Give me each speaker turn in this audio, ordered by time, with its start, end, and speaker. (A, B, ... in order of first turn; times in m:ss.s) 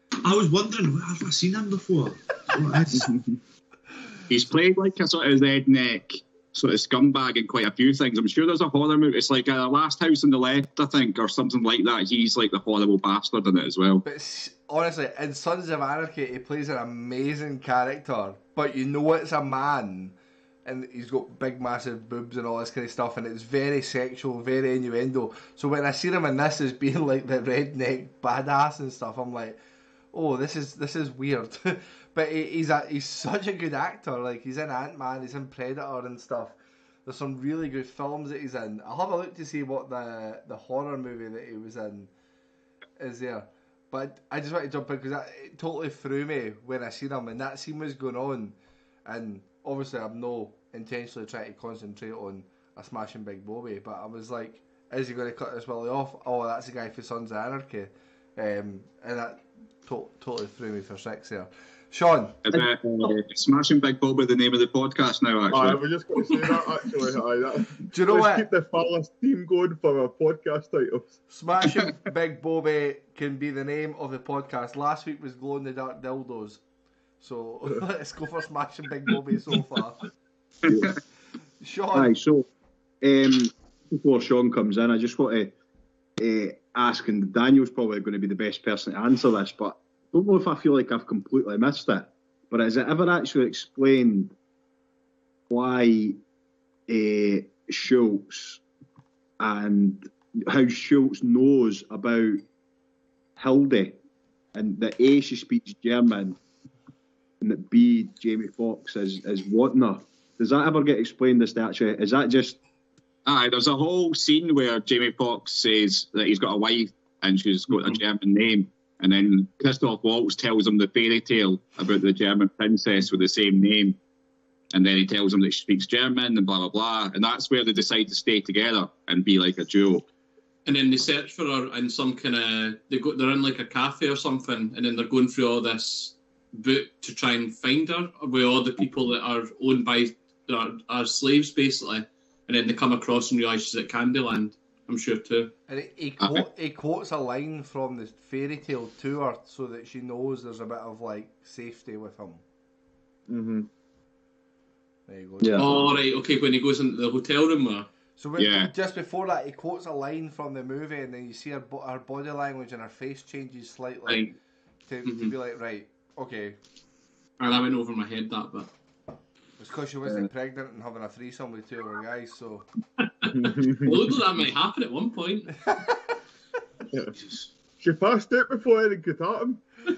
0:00.2-0:03.1 A
0:04.3-0:14.0 B
0:14.0-0:29.6 C
0:30.1-0:42.1 C
0:43.0-1:02.4 C
1:02.4-1:05.8 B
1:05.5-1:11.2 D
1:07.9-1:08.5 C
1:11.3-1:16.6 C
1:17.2-1:20.0 C
1:21.6-1:22.1 C
1:21.9-1:22.5 E
1:23.0-1:25.5 E
1:26.2-1:34.4 E
1:35.5-1:36.2 E
1:36.9-1:38.6 E
1:39.4-1:42.4 E
1:43.4-1:44.0 E
1:44.5-1:46.4 E
1:47.4-1:52.6 E
1:53.3-2:04.0 B
2:04.7-2:10.0 B
2:10.7-2:25.5 F
2:25.7-2:32.4 C
2:33.3-2:33.7 D
2:35.1-2:35.9 C
2:35.4-2:35.8 E
2:35.6-2:37.9 F
2:38.2-2:44.3 C
2:38.4-2:38.7 B
2:44.1-2:44.4 F
2:44.9-2:46.6 C
2:45.1-2:45.3 F
2:47.4-2:48.7 F
2:49.6-2:52.7 C
2:53.0-2:55.6 F
2:53.3-2:54.1 D
2:57.1-2:57.5 A
2:57.8-2:59.6 D